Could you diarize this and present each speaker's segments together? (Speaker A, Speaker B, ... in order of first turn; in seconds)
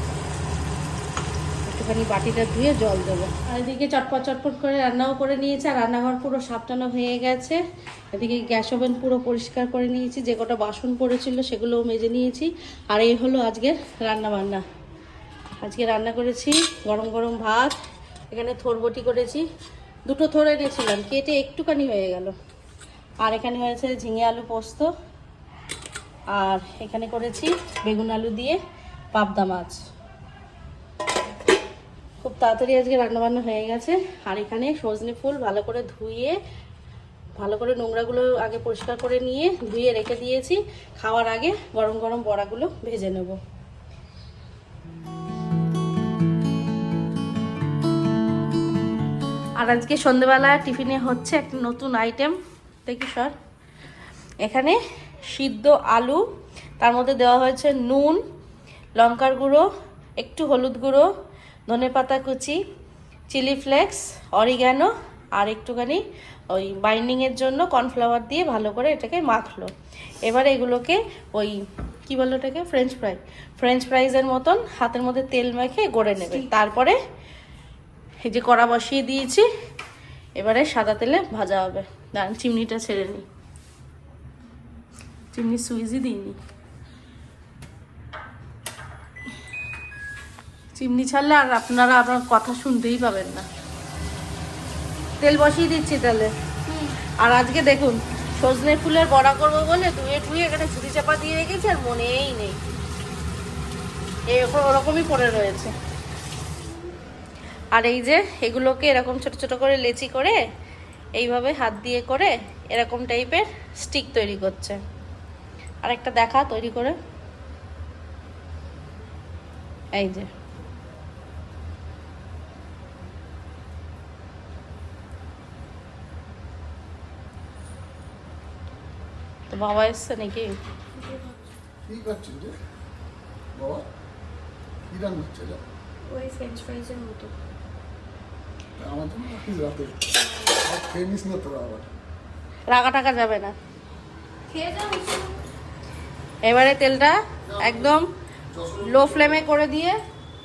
Speaker A: 1.7-7.6, 8.1-14.6, 15.6-17.8, 18.3-19.4, 20.1-22.3, 23.2-24.9, 26.3-28.6, 29.1-29.8, 32.2-36.4, 37.4-43.4, 49.6-53.4, 54.4-56.2, 56.8-58.2, 59.0-59.6, 60.2-61.1, 61.7-62.6, 63.3-69.7, 70.2-77.0, 78.2-79.5, 80.4-83.2, 85.3-86.4, 90.7-93.5, 95.2-102.6, 104.3-105.7, 107.7-110.4, 111.2-114.8, 115.8-117.0, 119.9-120.3, 129.5-130.6, 142.7-143.5, 146.4-148.1, 148.8-150.0
Speaker B: 131.0-131.3, 136.1-137.3, 140.2-140.6, 144.5-145.4
Speaker C: 131.9-132.6, 133.5-133.9, 134.9-135.6, 138.8-141.9, 148.5-149.3